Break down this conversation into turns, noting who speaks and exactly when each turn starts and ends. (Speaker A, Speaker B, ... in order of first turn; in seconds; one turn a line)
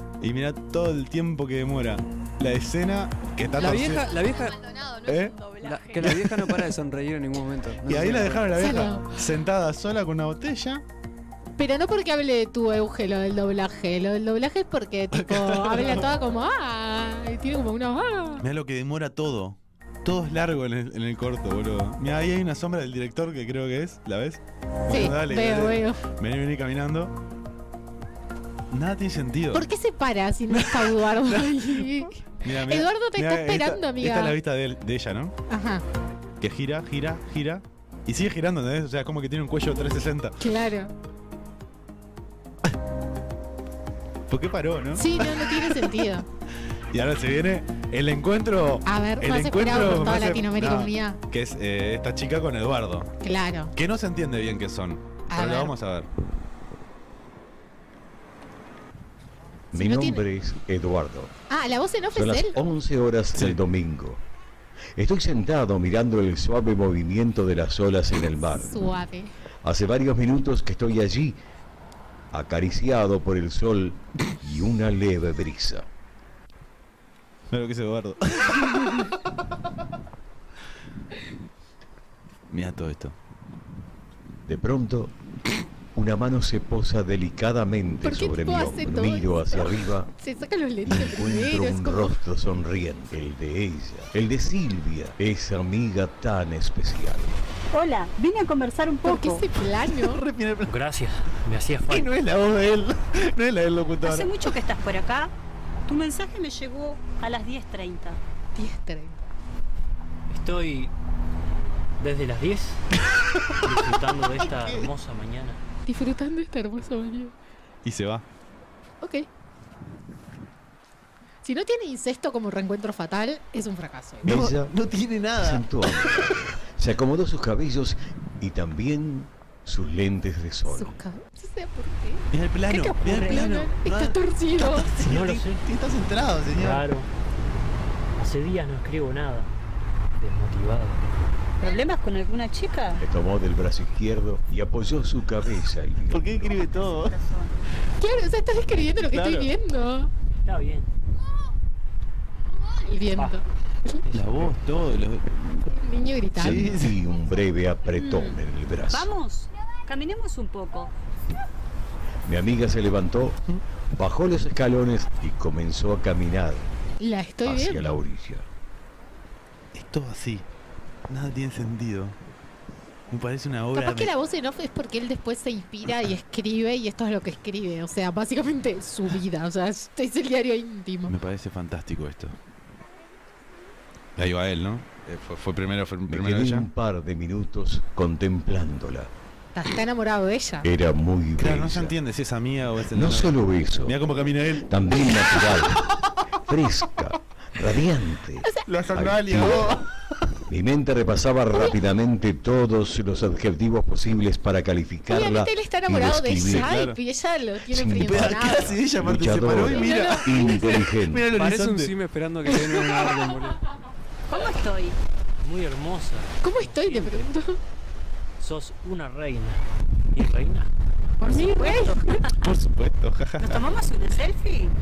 Speaker A: 0.2-4.1
Speaker B: 3.6-4.6
Speaker C: 3.6-6.1
Speaker A: 5.1-5.3
Speaker B: 5.6-8.6
Speaker A: 6.0-6.7
Speaker A: 7.8-10.8
Speaker D: 8.5-9.1
Speaker D: 11.6-18.4
Speaker A: 15.1-16.1
Speaker A: 18.4-27.1
Speaker D: 24.9-26.0
Speaker A: 28.7-29.7
Speaker D: 29.5-34.4
Speaker A: 30.5-35.3
Speaker D: 35.5-35.8
Speaker A: 36.4-40.4
Speaker D: 40.4-40.9
Speaker A: 44.3-46.0
Speaker D: 45.0-46.2
Speaker A: 46.9-53.1
Speaker D: 48.9-51.2
Speaker D: 53.2-53.7
Speaker A: 53.7-56.1
Speaker D: 55.3-55.7
Speaker E: 59.7-61.3
Speaker D: 59.7-60.2
Speaker D: 61.5-62.6
Speaker E: 62.1-64.2
Speaker A: 63.3-63.6
Speaker E: 65.0-68.8
Speaker D: 68.5-69.3
Speaker E: 69.6-71.4
Speaker E: 72.3-75.9
Speaker A: 77.5-79.2
Speaker A: 82.5-83.2
Speaker E: 84.5-85.1
Speaker E: 85.9-90.1
Speaker D: 88.0-92.2
Speaker E: 90.8-97.3
Speaker F: 97.7-99.4
Speaker D: 99.0-100.2
Speaker A: 99.8-100.8
Speaker G: 100.6-102.1
Speaker A: 101.8-104.5
Speaker F: 104.0-105.3
Speaker F: 105.9-108.2
Speaker D: 108.5-109.2
Speaker G: 110.3-110.9
Speaker G: 112.0-112.8
Speaker G: 113.6-115.6
Speaker A: 114.6-114.8
Speaker D: 115.8-117.3
Speaker A: 117.8-118.2
Speaker D: 119.0-119.3
Speaker D: 121.4-124.3
Speaker E: 124.2-124.7
Speaker A: 124.2-126.3
Speaker E: 125.4-131.0
Speaker D: 130.7-135.0
Speaker A: 132.3-136.8
Speaker G: 135.0-135.6
Speaker G: 136.6-137.1
Speaker G: 138.2-139.5
Speaker G: 140.1-141.1
Speaker F: 141.6-143.0
Speaker E: 143.0-146.6
Speaker A: 146.1-147.1
Speaker F: 146.7-147.5
Speaker D: 148.0-150.1
Speaker A: 149.0-149.5
Speaker G: 150.4-150.9
Speaker D: 152.8-154.0
Speaker G: 153.1-153.4
Speaker G: 154.1-154.5
Speaker A: 154.1-155.6
Speaker D: 155.7-156.6
Speaker A: 156.4-157.0
Speaker E: 156.4-159.1
Speaker F: 158.0-158.3
Speaker F: 158.9-160.9
Speaker E: 162.2-163.4
Speaker E: 163.9-166.7
Speaker D: 167.0-167.9
Speaker E: 167.4-168.4
Speaker A: 169.7-170.4
Speaker A: 171.1-172.2
Speaker A: 173.1-174.1
Speaker D: 173.7-181.1
Speaker A: 181.1-182.3
Speaker A: 184.2-186.7
Speaker E: 186.1-189.1
Speaker D: 189.5-190.7
Speaker E: 190.6-191.9
Speaker A: 191.4-195.1
Speaker E: 192.9-194.0
Speaker E: 194.6-195.8
Speaker E: 196.5-199.8
Speaker A: 198.7-199.8
Speaker E: 200.5-206.7
Speaker D: 205.1-208.8
Speaker A: 206.5-207.0
Speaker E: 207.7-211.3
Speaker A: 208.1-211.9
Speaker D: 209.7-210.8
Speaker B: 211.3-213.6
Speaker F: 214.3-214.9
Speaker G: 215.4-217.3
Speaker D: 216.4-217.6
Speaker G: 218.4-219.6
Speaker G: 220.1-220.7
Speaker D: 221.2-222.0
Speaker F: 221.3-222.0
Speaker A: 222.3-223.6
Speaker F: 223.4-224.7